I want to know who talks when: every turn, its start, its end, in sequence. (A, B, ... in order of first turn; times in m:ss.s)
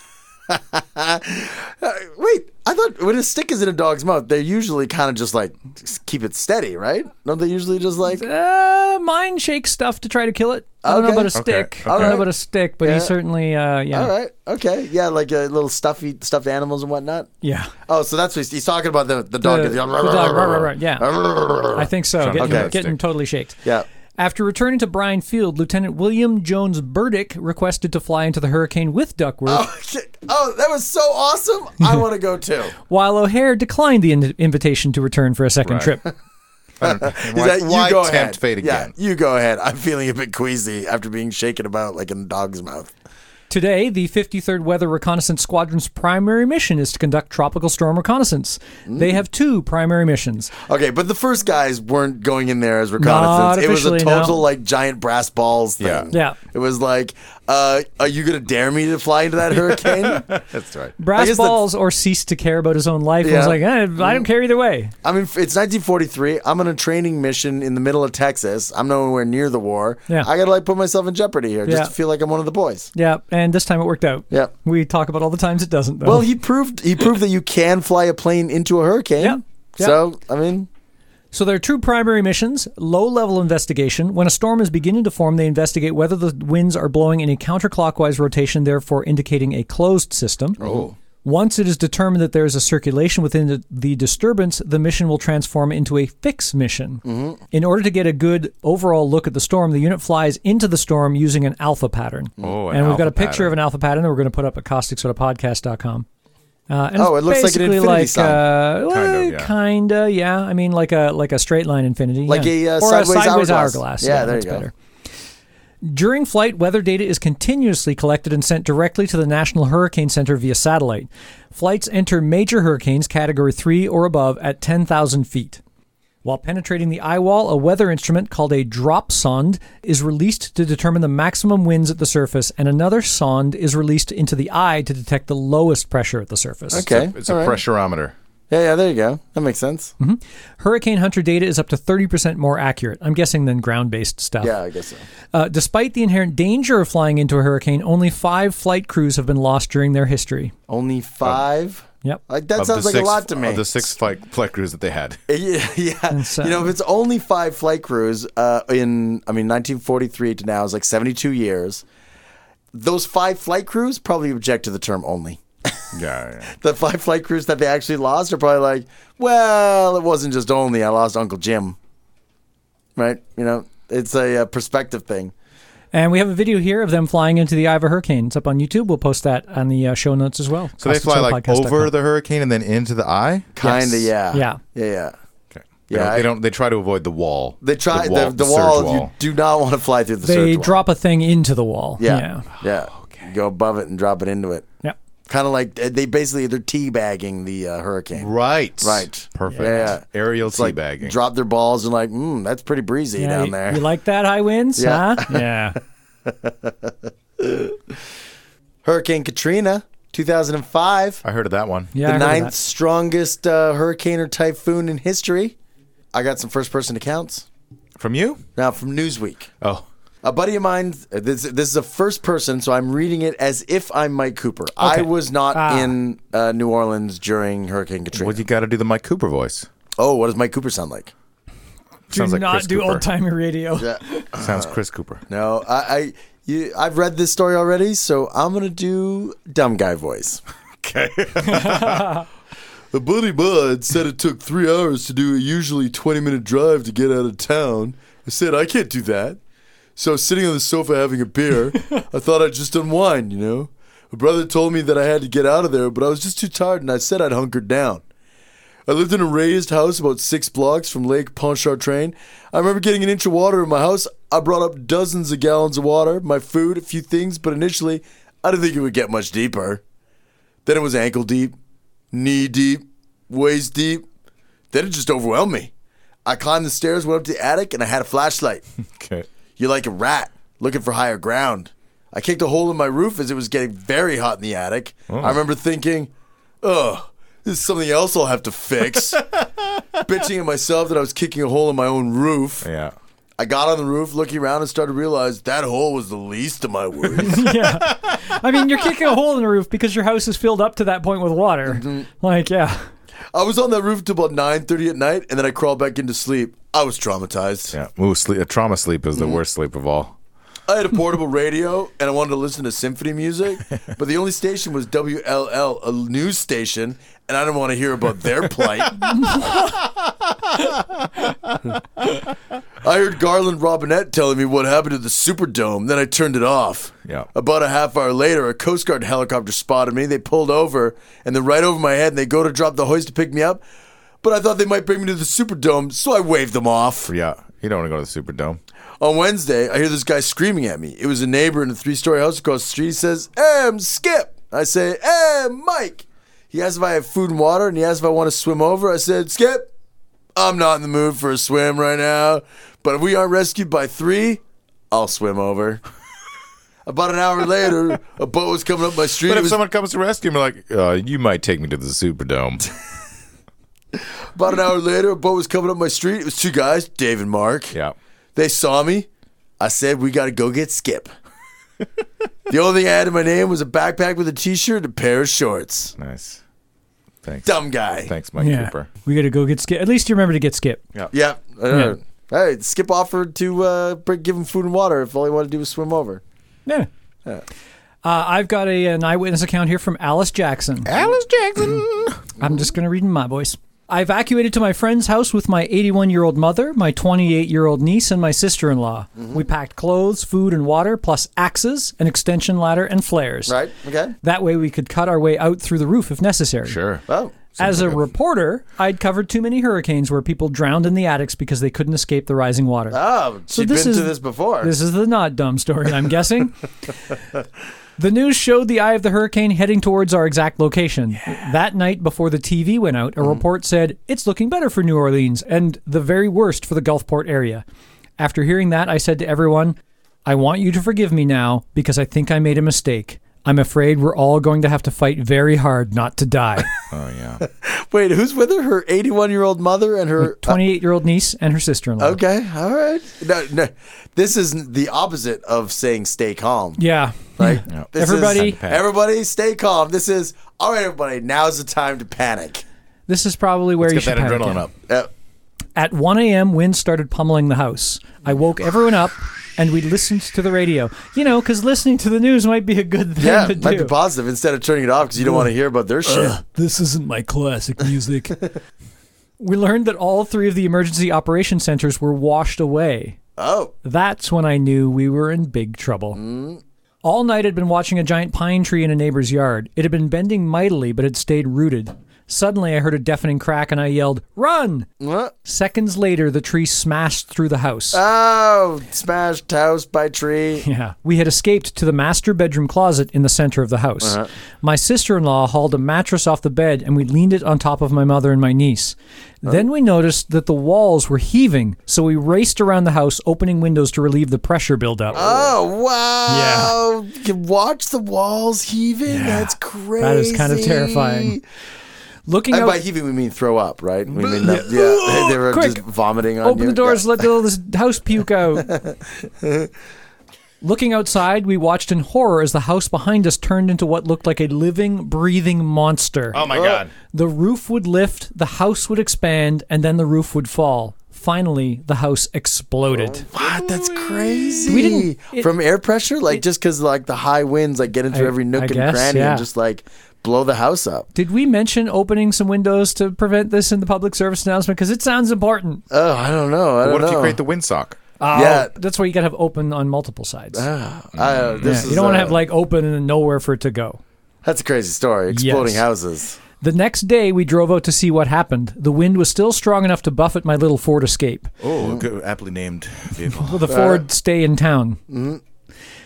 0:00.5-0:08.2 A
0:08.1-0:14.1 B
0:10.8-0:12.3 A
0:11.4-0:12.2 C
0:12.8-0:13.1 A
0:13.9-0:17.3 A
0:17.4-0:17.7 B
0:17.9-0:22.7 A
0:19.4-0:21.1 B
0:21.7-0:23.6 B
0:22.2-0:23.0 C
0:24.2-0:29.7 B
0:29.5-0:32.7 A
0:32.9-0:36.1 B
0:35.6-0:35.9 C
0:36.8-0:38.9 C
0:36.8-0:42.9 A
0:43.5-0:50.5 B
0:48.9-0:49.2 A
0:50.6-1:00.4 A
0:53.0-0:54.4 B
0:55.8-0:56.1 C
0:56.1-0:56.4 B
0:59.8-1:00.9 C
1:01.0-1:04.9 B
1:01.1-1:01.6 A
1:03.2-1:04.3 A
1:05.0-1:12.9 A
1:11.7-1:11.9 B
1:13.0-1:16.3 B
1:16.0-1:20.7 A
1:19.2-1:20.0 B
1:21.3-1:30.6 B
1:30.6-1:31.0 A
1:30.6-1:30.9 C
1:31.2-1:46.1 B
1:37.0-1:37.4 A
1:42.4-1:43.6 C
1:46.7-1:54.7 B
1:47.0-1:48.4 A
1:48.9-1:49.5 C
1:52.3-1:54.7 A
1:55.8-2:05.6 B
2:06.2-2:16.8 B
2:16.7-2:17.6 A
2:16.7-2:18.1 C
2:18.5-2:19.9 A
2:20.0-2:24.6 B
2:24.4-2:25.0 A
2:25.3-2:30.5 B
2:30.7-2:33.9 A
2:32.6-2:35.2 C
2:35.3-2:41.8 A
2:36.1-2:36.7 B
2:42.7-2:45.9 A
2:45.9-2:46.5 C
2:46.5-2:51.8 A
2:53.0-2:55.3 A
2:55.9-3:01.9 B
3:00.8-3:03.6 C
3:03.6-3:05.2 A
3:03.6-3:04.6 B
3:05.5-3:09.1 C
3:05.9-3:06.3 A
3:07.6-3:10.8 A
3:10.2-3:12.5 B
3:12.0-3:14.7 A
3:12.6-3:13.3 C
3:15.3-3:23.8 A
3:18.2-3:21.2 C
3:19.5-3:19.9 B
3:23.2-3:25.8 B
3:24.8-3:25.5 A
3:26.2-3:28.0 A
3:28.8-3:31.2 A
3:31.2-3:32.0 C
3:31.9-3:32.5 B
3:32.0-3:35.6 A
3:36.1-3:37.5 A
3:38.0-3:38.4 C
3:38.6-3:39.5 A
3:39.6-3:39.9 C
3:40.2-3:48.4 A
3:44.8-3:46.0 B
3:48.1-3:49.7 C
3:50.0-3:51.1 A
3:52.1-3:53.0 C
3:52.1-3:54.3 B
3:53.8-3:54.7 A
3:54.4-3:55.2 C
3:55.3-4:00.4 A
4:00.8-4:02.0 C
4:01.4-4:02.3 B
4:02.9-4:09.4 A
4:10.0-4:18.0 A
4:18.9-4:29.8 A
4:30.6-4:31.6 A
4:32.1-4:34.1 A
4:34.7-4:35.7 A
4:36.3-4:38.6 A
4:39.0-4:39.3 C
4:39.6-4:46.1 A
4:45.1-4:45.4 C
4:46.6-4:49.2 A
4:48.9-4:49.8 C
4:50.0-4:52.7 A
4:52.6-4:52.9 C
4:53.4-4:57.4 A
4:57.2-5:02.9 B
4:57.3-4:58.2 C
5:01.7-5:02.1 A
5:03.3-5:07.8 A
5:07.7-5:10.1 C
5:10.7-5:19.2 A
5:19.2-5:19.6 B
5:22.8-5:33.6 A
5:34.2-5:37.1 A
5:37.1-5:38.6 C
5:39.0-5:49.7 A
5:50.4-5:55.8 A
5:56.9-5:59.6 A
5:59.2-6:02.7 C
6:03.9-6:07.7 A
6:08.4-6:09.1 A
6:09.6-6:11.1 A
6:12.5-6:16.0 A
6:16.0-6:16.4 C
6:17.2-6:18.9 C
6:17.4-6:18.1 A
6:18.4-6:20.8 B
6:21.1-6:26.2 A
6:21.7-6:22.0 B
6:28.0-6:30.9 B
6:30.9-6:32.2 C
6:32.4-6:43.6 B
6:43.5-6:44.2 A
6:44.2-6:46.8 B
6:46.6-6:47.0 C
6:47.1-6:47.4 A
6:47.6-6:56.6 B
6:47.6-6:48.0 C
6:52.9-6:54.7 A
6:58.0-7:07.6 B
7:08.2-7:16.7 B
7:16.9-7:17.4 C
7:17.4-7:20.6 A
7:20.2-7:22.2 B
7:22.0-7:26.8 A
7:26.8-7:28.6 B
7:27.4-7:32.6 A
7:27.7-7:28.9 C
7:33.1-7:34.6 B
7:33.8-7:34.8 C
7:35.8-7:44.0 B
7:43.2-7:46.4 A
7:45.2-7:45.5 B
7:46.1-7:48.5 B
7:49.4-7:53.2 B
7:53.4-7:53.7 A
7:53.8-7:56.2 B
7:56.1-7:56.6 A
7:57.0-8:04.9 B
8:05.0-8:05.3 A
8:05.4-8:08.0 B
8:07.9-8:10.6 A
8:10.6-8:25.3 B
8:14.0-8:14.3 A
8:25.1-8:31.4 A
8:26.3-8:26.8 B
8:29.1-8:31.4 B
8:32.3-8:32.8 B
8:32.5-8:37.2 A
8:34.1-8:35.8 B
8:36.4-8:38.8 B
8:38.6-8:39.7 A
8:40.6-8:46.4 B
8:46.3-8:46.9 C
8:46.4-8:46.8 A
8:47.1-8:53.3 B
8:53.0-9:01.1 A
8:53.4-8:54.7 C
8:54.7-8:55.5 B
8:58.1-8:59.5 B
9:01.2-9:05.8 B
9:05.9-9:07.4 A
9:06.8-9:08.0 C
9:08.2-9:10.7 B
9:08.3-9:08.7 A
9:10.5-9:12.4 A
9:11.2-9:11.7 C
9:11.6-9:14.0 B
9:14.4-9:16.4 A
9:15.3-9:15.8 B
9:16.6-9:21.5 B
9:21.6-9:23.7 C
9:21.8-9:22.0 A
9:23.3-9:25.0 B
9:23.7-9:24.0 A
9:25.1-9:25.4 A